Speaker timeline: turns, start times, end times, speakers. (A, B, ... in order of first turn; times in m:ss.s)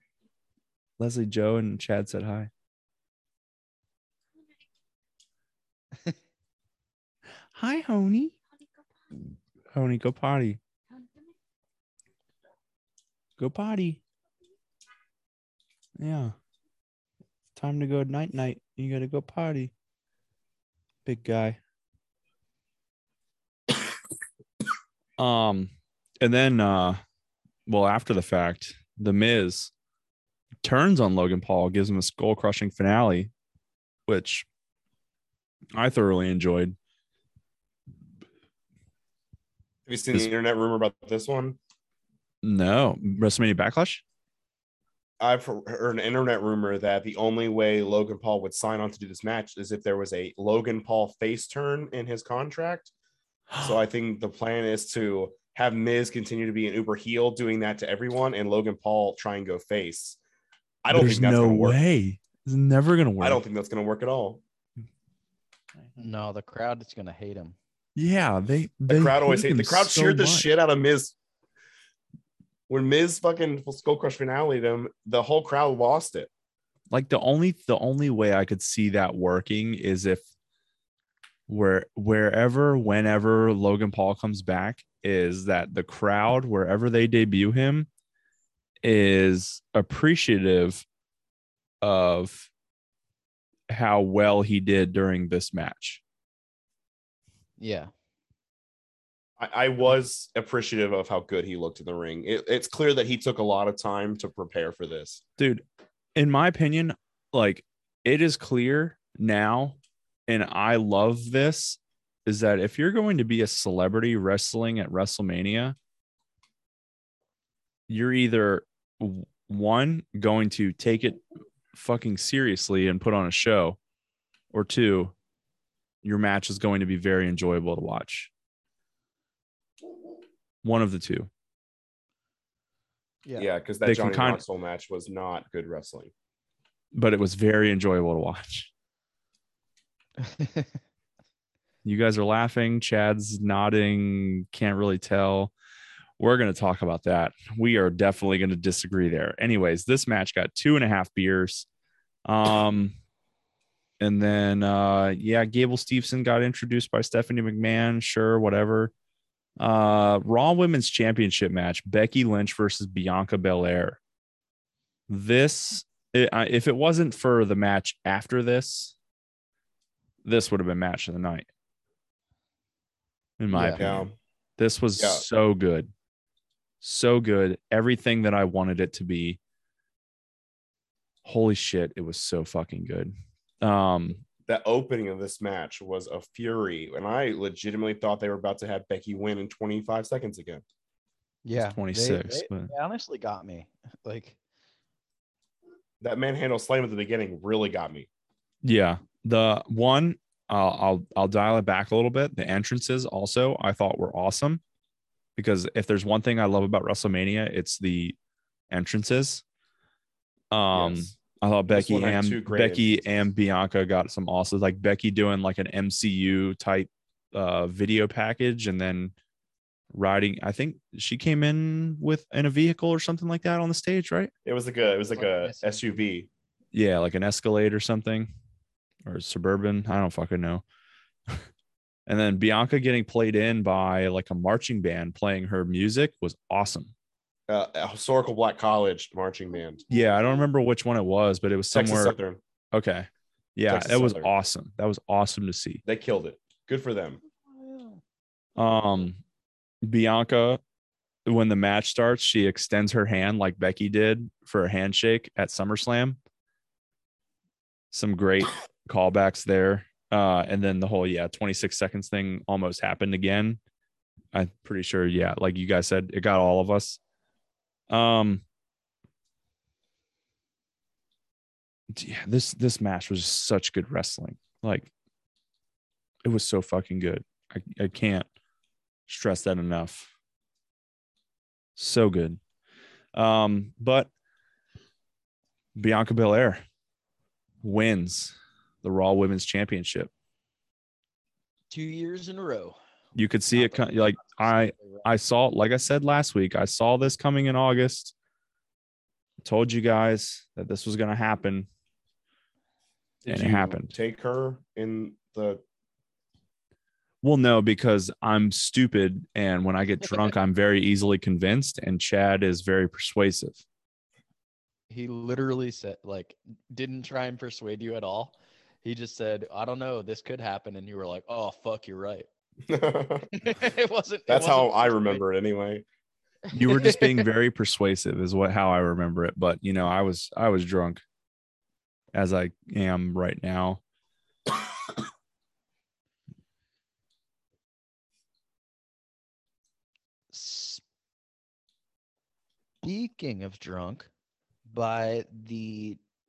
0:01.0-0:02.5 A
0:07.5-0:08.4 A
0:09.7-0:10.6 A
0:13.4-0:14.0 A
0:16.0-0:16.4 A
0:17.6-0:19.7 A
0:21.0-0:21.6 A
0:25.2-0:27.0 A
0:27.7-0:29.7 A
0:30.6-0:33.3 A
0:34.1-0:34.5 A
0:35.8-0:36.8 A
0:39.9-0:41.6 B
0:42.4-0:44.0 A
0:45.2-0:52.9 B
0:53.6-1:00.2 B
1:00.8-1:01.8 B
1:00.9-1:03.4 A
1:03.2-1:04.4 B
1:06.0-1:07.6 C
1:08.0-1:10.5 A
1:08.9-1:11.1 B
1:12.7-1:16.3 B
1:16.9-1:20.2 A
1:21.5-1:27.9 A
1:28.8-1:30.8 A
1:31.8-1:32.5 A
1:33.7-1:36.0 A
1:37.6-1:37.9 C
1:39.4-1:45.2 B
1:45.4-1:45.6 A
1:46.2-1:55.8 A
1:57.9-2:01.2 A
2:01.7-2:03.8 A
2:04.5-2:05.1 A
2:06.0-2:08.3 A
2:10.6-2:11.3 A
2:13.4-2:16.1 B
2:13.8-2:14.4 A
2:16.9-2:18.7 A
2:20.2-2:20.7 C
2:21.8-2:25.5 A
2:26.2-2:31.7 A
2:32.3-2:33.0 A
2:34.0-2:38.9 A
2:39.6-2:44.0 A
2:45.1-2:49.0 A
2:50.2-2:51.5 A
2:53.4-2:55.9 A
2:53.5-2:53.8 C
2:53.8-2:54.1 B
2:55.0-2:55.2 B
2:56.8-2:59.4 A
3:01.2-3:04.2 A
3:04.5-3:10.6 B
3:11.4-3:14.4 C
3:11.6-3:12.7 A
3:16.0-3:18.1 B
3:18.6-3:24.6 A
3:25.4-3:28.2 A
3:28.7-3:29.4 A
3:30.5-3:39.1 A
3:30.7-3:31.2 B
3:31.7-3:33.3 B
3:39.9-3:44.3 A
3:44.4-3:46.3 B
3:44.8-3:45.8 C
3:46.7-3:48.3 A
3:49.0-3:50.6 A
3:52.1-3:56.9 A
3:57.5-3:59.8 B
3:59.9-4:02.2 A
4:01.7-4:02.4 B
4:02.7-4:05.8 A
4:03.7-4:04.3 B
4:05.8-4:07.2 B
4:07.4-4:08.0 C
4:08.6-4:09.2 A
4:09.8-4:10.6 A
4:11.3-4:16.2 A
4:17.9-4:23.6 A
4:24.3-4:27.0 A
4:27.9-4:28.4 A
4:31.9-4:34.9 A
4:36.2-4:38.3 A
4:39.1-4:40.1 A
4:41.8-4:42.4 A
4:43.1-4:44.1 A
4:45.8-4:46.6 A
4:47.6-4:50.1 A
4:51.7-4:52.8 C
4:53.2-4:58.1 A
4:53.5-4:55.0 C
4:59.4-5:01.7 A
5:03.2-5:05.6 B
5:03.3-5:03.9 A
5:07.2-5:13.6 A
5:14.9-5:22.3 C
5:22.7-5:23.3 B
5:23.3-5:25.2 C
5:24.3-5:25.8 B
5:26.5-5:27.3 C
5:26.5-5:31.0 A
5:32.1-5:33.8 A
5:40.3-5:40.8 C
5:42.8-5:44.1 C
5:44.7-5:46.0 C